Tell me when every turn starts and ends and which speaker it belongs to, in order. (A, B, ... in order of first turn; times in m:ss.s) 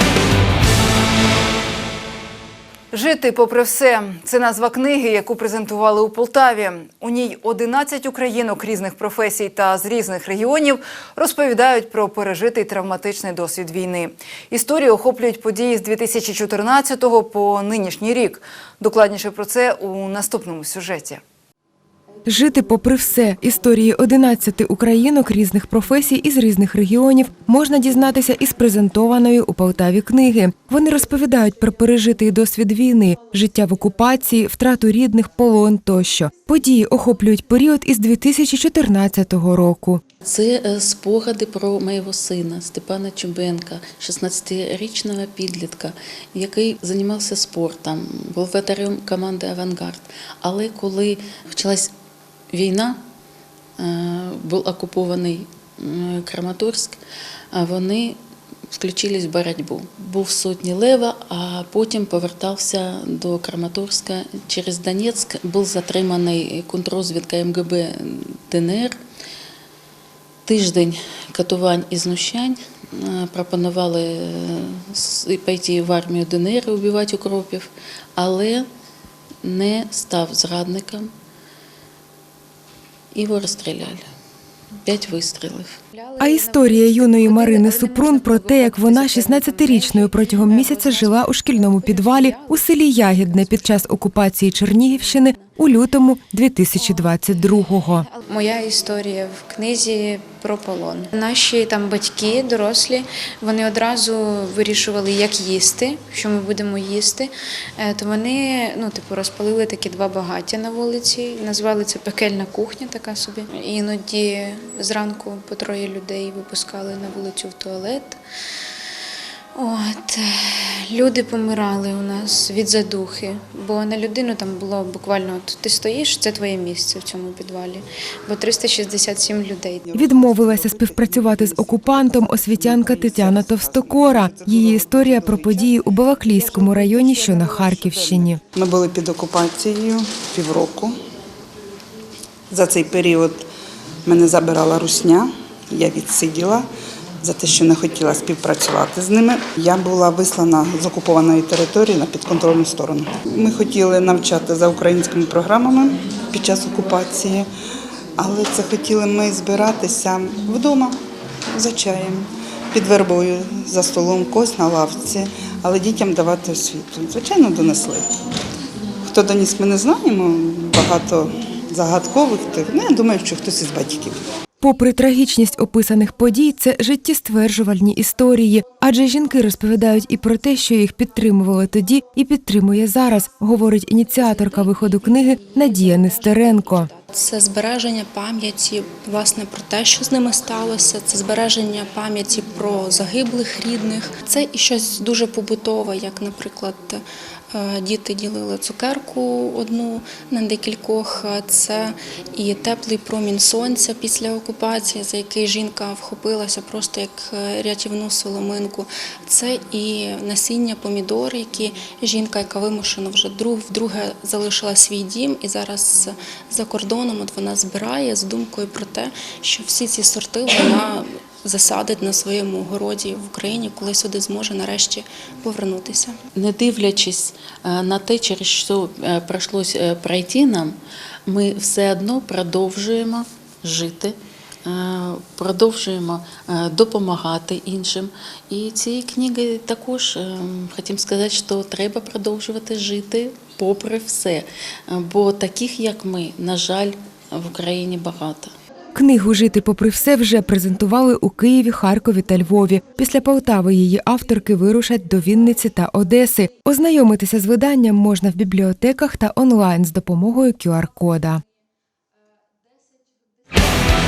0:02.9-0:21.2 A
0:22.3-0:40.0 B
0:40.2-0:51.9 C
0:52.5-0:53.0 C
0:53.8-0:57.0 C
0:57.5-0:58.2 C
0:58.7-1:09.0 C
1:10.4-1:18.7 C
1:19.4-1:21.1 C
1:23.1-1:24.0 C
1:24.8-1:25.8 C
1:25.9-1:34.1 D
1:26.2-1:38.1 B
1:34.9-1:35.5 D
1:36.8-1:58.2 D
1:59.5-2:09.9 D
2:09.9-2:21.0 E
2:09.9-2:18.4 B
2:22.5-2:23.5 E
2:24.0-2:26.7 E
2:27.2-2:37.5 E
2:38.2-2:41.0 E
2:41.5-2:48.1 E
2:49.0-2:54.2 E
2:54.6-3:06.9 B
3:04.2-3:06.8 D
3:07.1-3:46.2 F
3:46.4-4:08.5 C
4:08.9-4:21.4 B